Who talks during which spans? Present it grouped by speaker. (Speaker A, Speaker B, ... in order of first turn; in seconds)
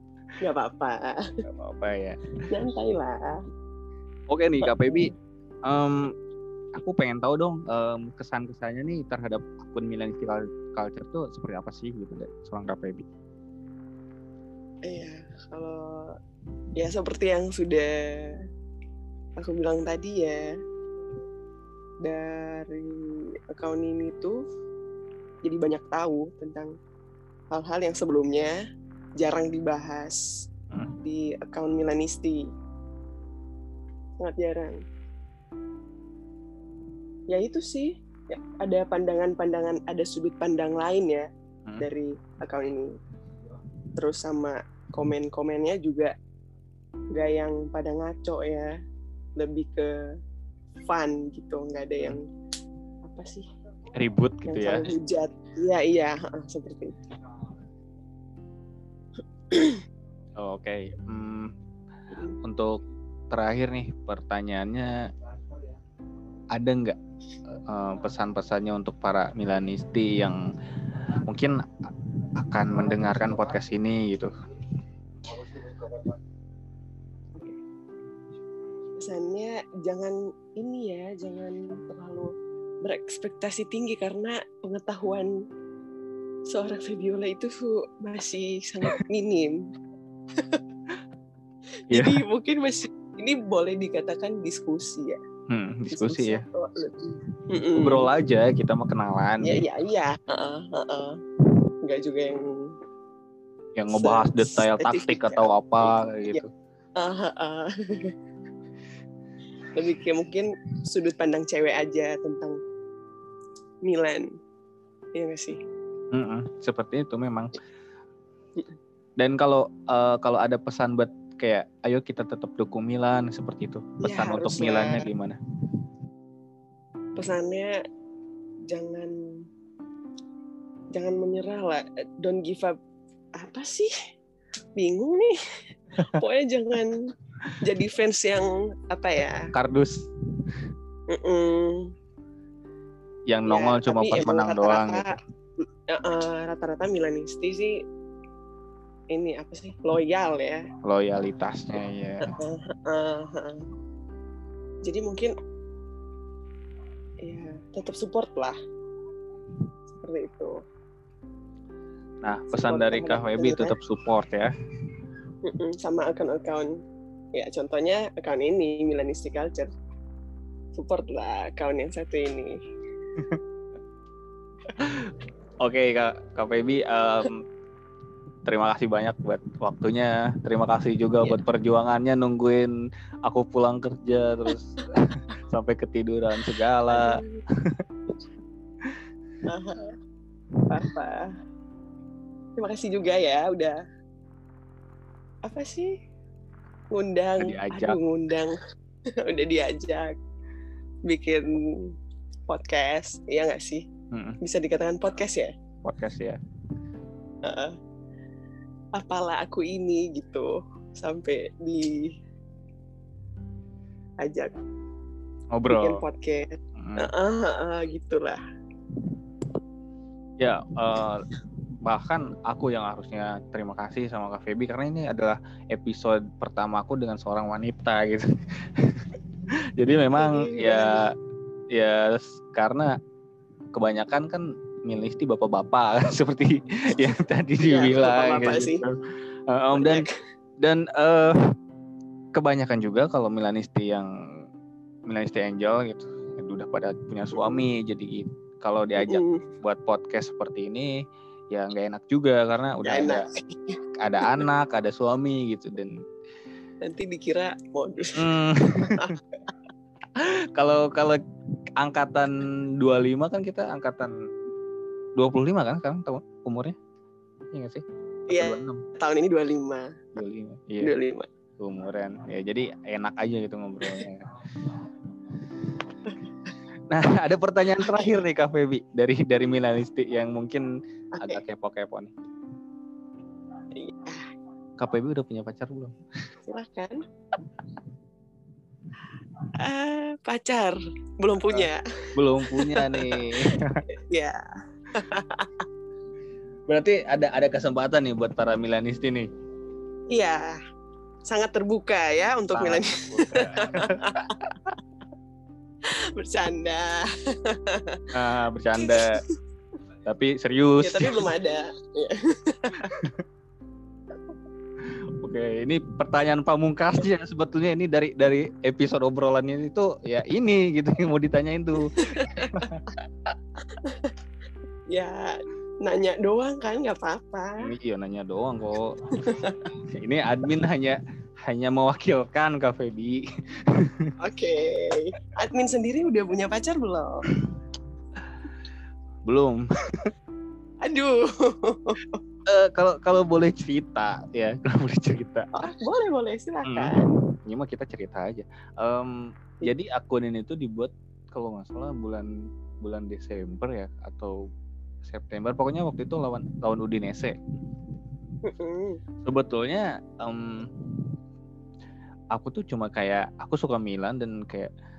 Speaker A: 0.4-1.3, 2.5-3.4, 4.6-5.1, 14.8-16.1, 16.7-18.4, 19.4-20.5, 22.0-24.4, 25.4-26.7, 27.5-28.6, 29.2-30.2, 31.0-32.5, 34.2-34.8, 37.3-41.3, 41.8-42.9, 44.0-46.1, 47.1-48.7, 49.4-50.0, 50.9-52.2, 53.0-53.5, 54.5-57.0, 59.5-59.8, 79.0-82.3, 82.8-85.3, 86.5-89.5, 91.9-95.2, 95.9-98.1, 99.4-101.2, 101.8-102.7, 103.9-105.5, 107.0-108.1, 109.7-112.6, 113.8-114.3, 115.1-115.6, 124.0-125.1, 127.2-127.7, 128.7-129.1, 130.9-132.8, 133.3-133.9, 134.8-135.4, 136.0-137.0, 137.6-139.5, 141.1-141.9, 143.4-145.1, 145.9-147.8, 149.1-150.6, 152.2-153.6, 154.8-155.3, 157.2-158.6, 159.9-160.6, 162.5-163.8, 165.4-166.7, 167.3-169.7, 170.7-172.5, 186.9-187.4, 189.5-189.9, 190.7-191.3, 192.6-193.8, 195.4-195.9, 196.9-198.6, 199.2-200.1, 201.1-201.9, 202.5-203.9, 204.4-205.5, 207.4-207.7, 208.9-212.1, 214.2-214.5, 215.7-218.4, 230.1-231.1, 237.6-238.8, 239.7-240.1, 247.3-247.6, 249.0-249.4, 252.8-254.4, 256.8-259.2, 268.3-269.9, 270.8-271.3, 277.8-278.1, 281.1-281.4, 283.8-284.3, 286.5-287.0, 289.6-291.8, 292.4-295.6, 300.1-300.6, 301.2-304.3, 305.9-308.1, 308.8-309.2, 310.8-313.0, 321.9-322.6, 323.7-324.1, 324.9-327.6, 329.2-329.6, 334.2-337.2, 340.8-342.2, 345.5-347.1, 358.4-359.0
Speaker B: 1.4-2.2, 4.3-5.1, 5.6-6.1, 6.7-13.1, 53.9-54.9, 60.4-61.5, 62.4-65.0, 66.5-70.4, 71.2-74.3, 75.7-75.9, 91.9-92.2, 95.5-96.4, 97.8-99.6, 103.7-106.5, 116.1-117.5, 119.2-125.4, 139.5-140.7, 143.3-145.1, 150.8-152.3, 162.2-164.5, 174.8-177.4, 178.4-182.7, 183.2-187.8, 197.4-198.0, 204.1-204.4, 205.8-206.4, 215.5-216.0, 216.8-217.1, 220.4-221.2, 221.8-229.1, 229.8-231.1, 231.7-232.9, 233.7-239.0, 239.5-240.1, 240.6-241.4, 242.3-244.1, 245.1-250.9, 251.5-253.2, 254.0-255.9, 258.2-259.2, 260.1-261.2, 261.8-264.1, 265.1-266.8, 267.5-268.8, 270.1-270.9, 271.6-274.7, 276.9-282.1, 284.8-285.9, 291.5-293.8, 296.7-299.3, 302.5-304.7, 308.1-309.1, 310.0-311.3, 312.8-313.2, 314.8-322.8, 327.6-334.1, 337.3-337.5, 339.2-340.1, 342.4-345.5, 346.6-352.3, 352.8-354.4, 355.0-357.4, 359.2-361.1, 362.3-364.7